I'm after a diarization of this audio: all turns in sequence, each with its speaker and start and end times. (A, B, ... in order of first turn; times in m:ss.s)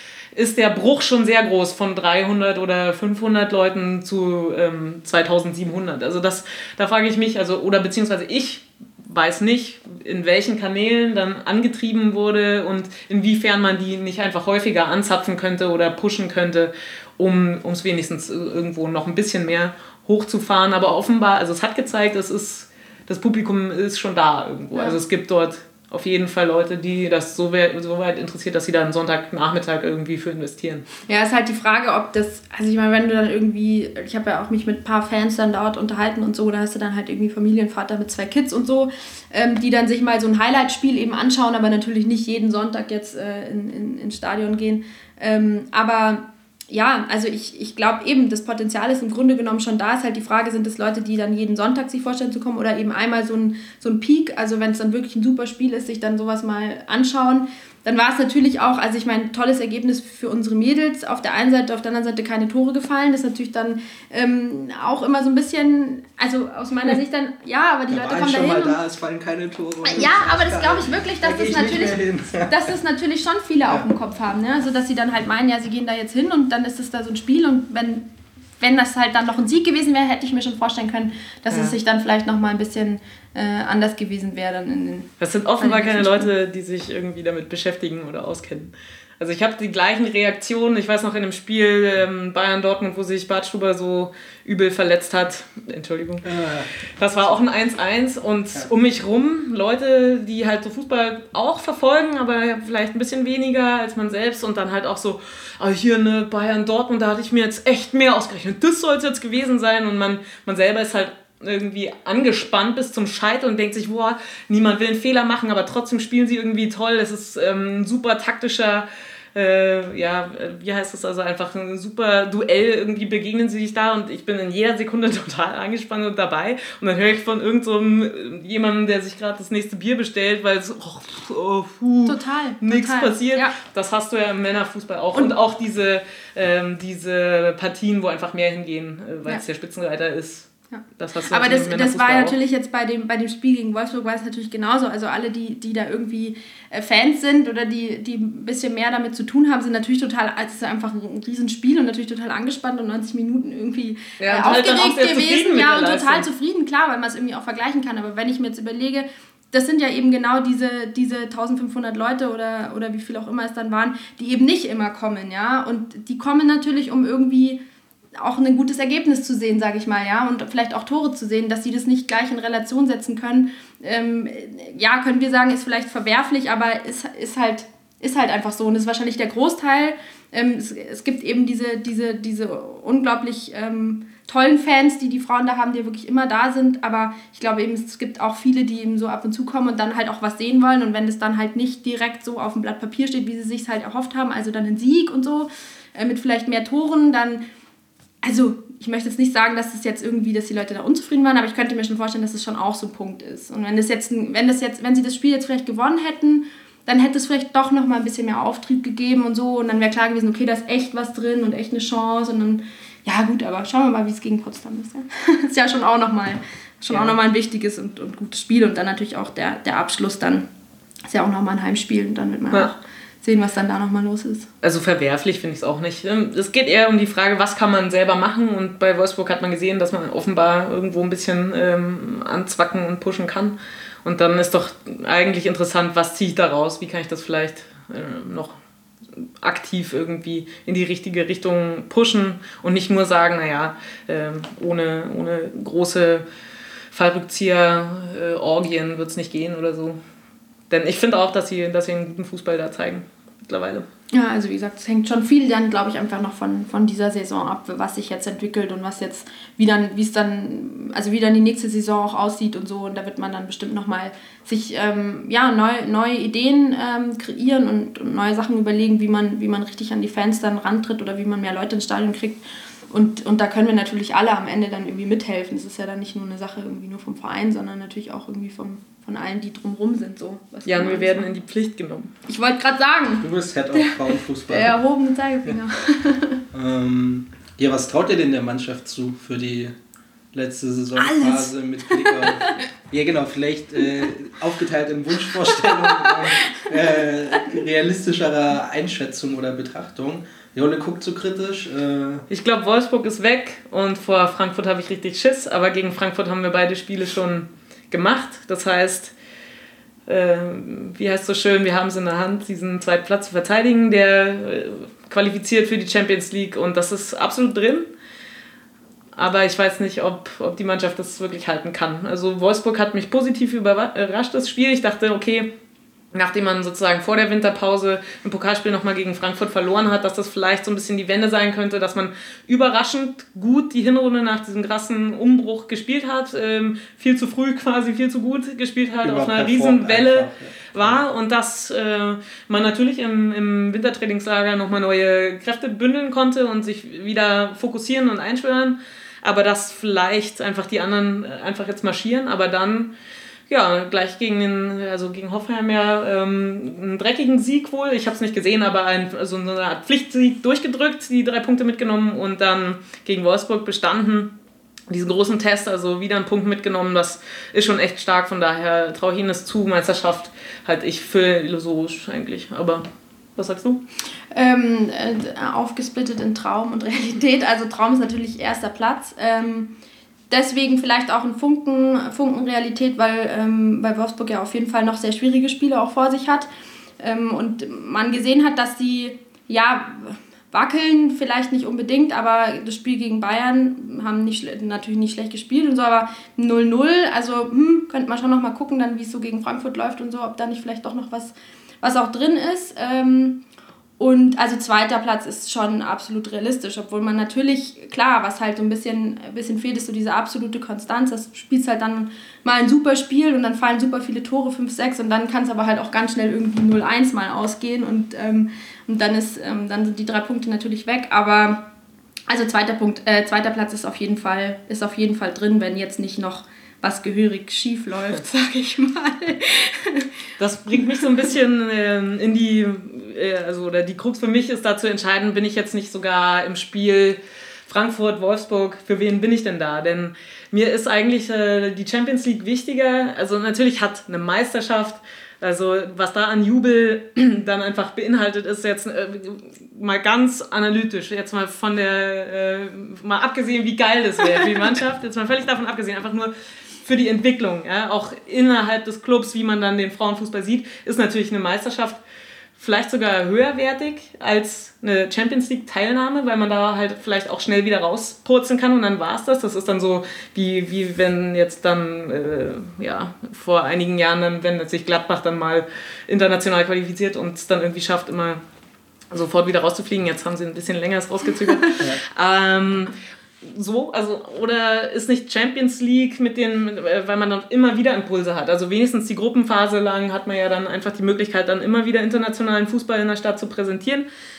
0:00.3-0:30.9 A
0:31.1-1:08.8 B
1:07.9-1:12.7 C
1:09.8-1:18.1 B
1:18.6-1:25.1 B
1:21.5-1:21.8 A
1:25.2-1:36.3 A
1:25.6-1:26.3 B
1:36.2-1:36.7 C
1:37.0-2:22.4 A
2:12.0-2:13.5 B
2:20.7-2:47.6 B
2:34.2-2:36.3 A
2:48.2-3:17.4 B
3:18.2-3:40.4 B
3:36.9-3:37.2 A
3:41.1-3:44.5 B
3:44.6-3:58.6 A
3:59.2-4:06.2 A
4:06.9-4:10.0 A
4:10.7-4:13.9 A
4:14.1-4:41.3 B
4:40.7-4:42.1 A
4:42.3-4:46.4 B
4:43.2-4:44.8 C
4:46.5-4:49.7 C
4:50.3-5:02.3 C
4:51.0-4:52.6 B
4:55.6-4:56.7 B
5:02.3-5:09.1 A
5:10.1-5:17.9 A
5:19.2-5:25.5 A
5:26.1-5:52.9 A
5:39.0-5:41.0 C
5:53.5-6:04.3 A
6:04.9-6:13.8 A
6:14.3-6:19.7 B
6:20.3-6:26.5 B
6:27.0-6:43.4 B
6:44.0-7:01.7 B
7:02.3-7:10.1 B
7:10.4-7:36.3 A
7:10.8-7:11.2 B
7:36.8-7:42.0 A
7:42.6-7:58.4 A
7:59.1-8:14.0 A